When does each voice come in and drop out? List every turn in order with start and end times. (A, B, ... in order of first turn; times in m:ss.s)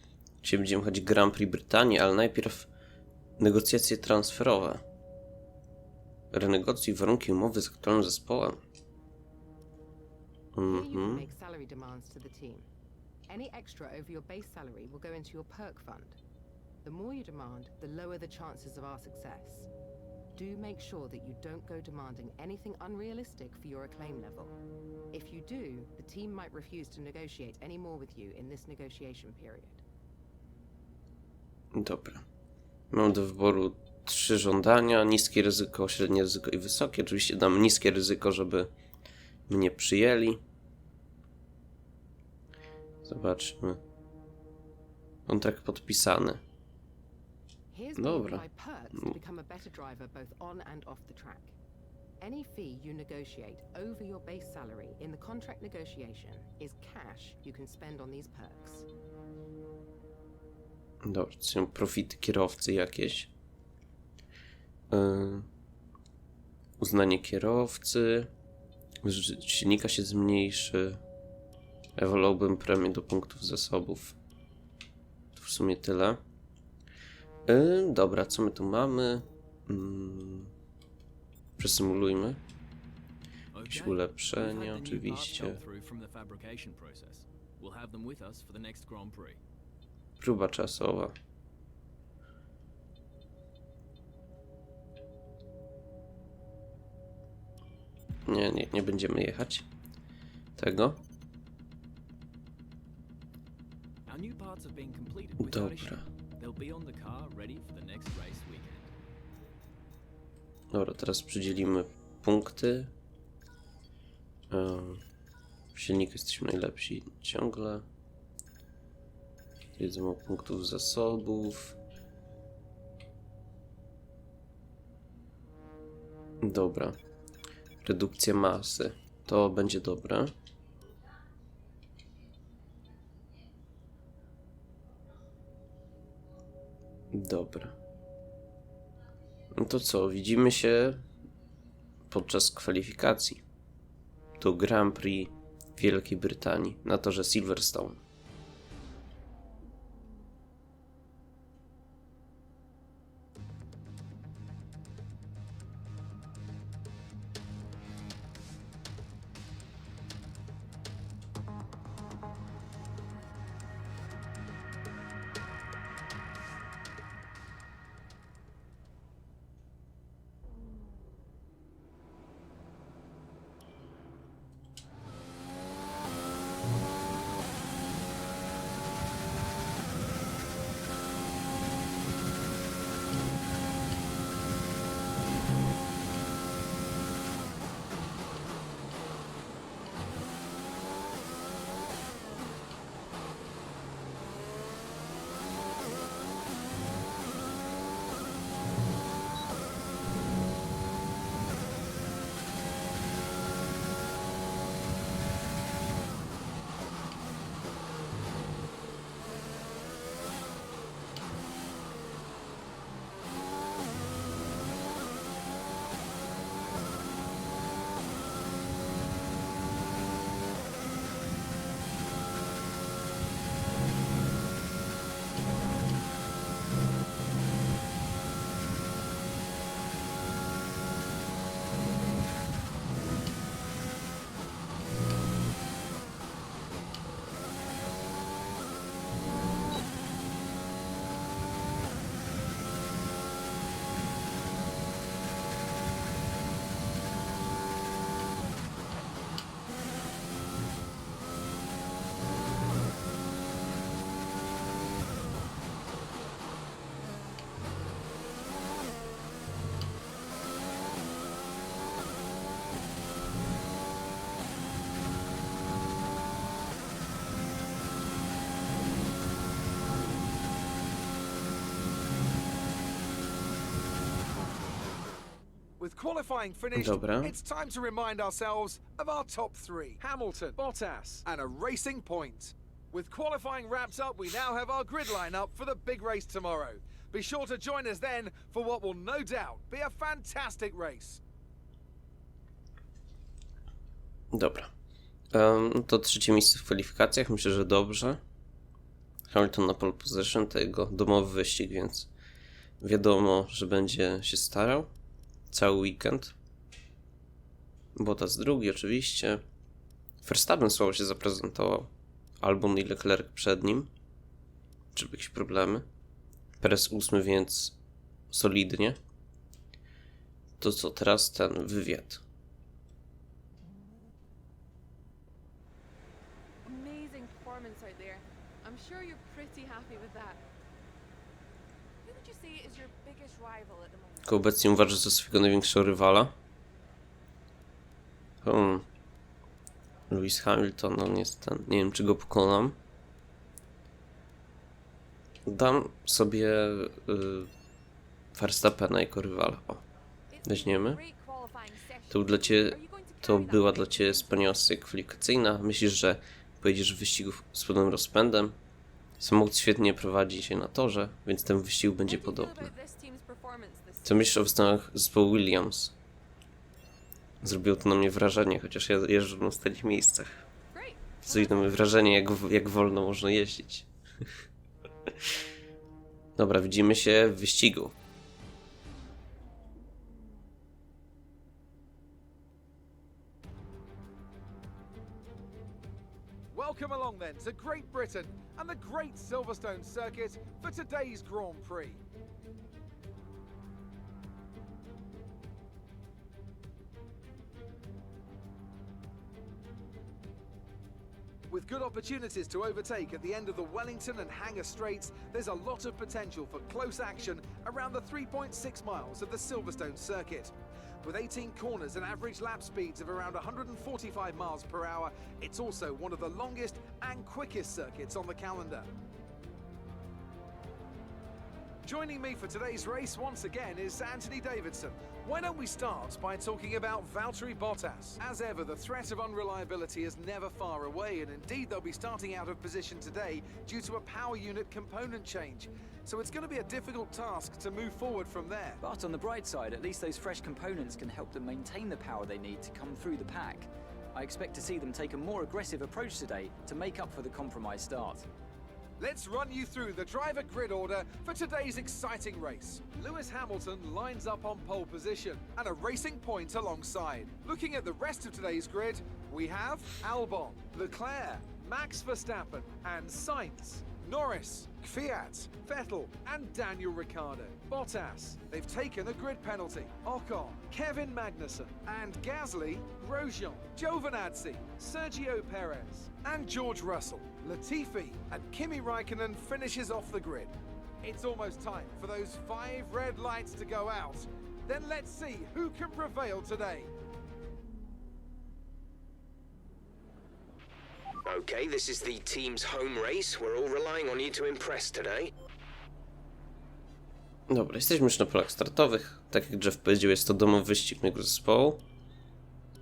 0:00.4-0:02.7 A
0:03.4-0:04.8 A
0:06.3-0:08.6 A
0:10.5-0:11.3 A
0:10.7-0:12.7 B
0:13.3-0:16.2 B
0:16.8-0:19.7 B
0:20.4-0:24.6 B
0:25.1-0:29.8 B
0:31.7-0:32.2 A
0:32.9-0:38.7 A
0:39.5-0:40.4 A
0:43.0-0:43.8 A
0:45.3-0:46.4 A
0:47.7-0:51.6 B
0:48.0-0:49.1 A
0:52.2-0:58.9 B
1:01.0-1:03.3 A
1:04.9-1:05.5 A
1:06.8-1:08.3 A
1:09.0-1:11.0 A
1:12.0-1:14.2 A
1:15.4-1:16.2 A
1:17.5-1:20.5 A
1:21.6-1:22.4 A
1:23.6-1:29.4 C
1:23.6-1:25.6 A
1:24.4-1:25.7 D
1:26.5-1:27.1 D
1:28.2-1:29.3 D
1:30.2-1:31.2 A
1:38.3-1:39.7 A
1:40.6-1:41.0 A
1:44.1-1:48.9 C
1:45.2-1:45.9 D
1:45.4-1:46.0 A
1:46.8-1:48.1 D
1:50.7-1:52.9 A
1:54.5-1:55.0 A
1:55.7-1:57.9 A
1:59.8-2:01.8 A
2:06.4-2:07.0 A
2:07.8-2:10.3 A
2:17.1-2:17.8 A
2:19.5-2:21.0 A
2:22.1-2:23.4 A
2:24.4-2:28.0 A
4:35.8-4:51.2 E
4:36.7-4:37.4 A
4:54.3-4:54.7 A
4:55.3-4:58.2 A
4:59.3-5:02.1 A
5:02.8-5:04.9 A
5:05.5-5:06.4 A
5:08.0-5:09.4 A
5:10.2-5:11.9 A
5:12.4-5:13.9 A
5:14.9-5:15.9 A
5:16.6-5:17.8 A
5:18.3-5:19.0 A
5:20.6-5:22.2 A
5:26.6-5:30.4 F
5:32.0-5:34.9 F
5:34.2-5:36.4 A
5:38.4-5:38.9 A
5:40.1-5:42.8 A
5:45.5-5:47.5 A
5:48.4-5:49.8 A
5:50.3-5:54.7 F
5:50.4-5:51.0 A
5:52.1-5:58.6 A
5:59.2-6:02.7 A
6:02.0-6:04.4 F
6:04.0-6:06.0 A
6:07.4-6:10.4 A
6:10.7-6:11.6 F
6:11.2-6:13.9 A
6:16.4-6:18.0 A
6:26.5-6:32.0 E
6:41.5-6:58.9 E
7:01.8-7:18.8 E
7:18.8-7:28.3 D
7:29.0-8:06.9 E
8:11.3-8:15.3 G
8:17.5-8:21.8 A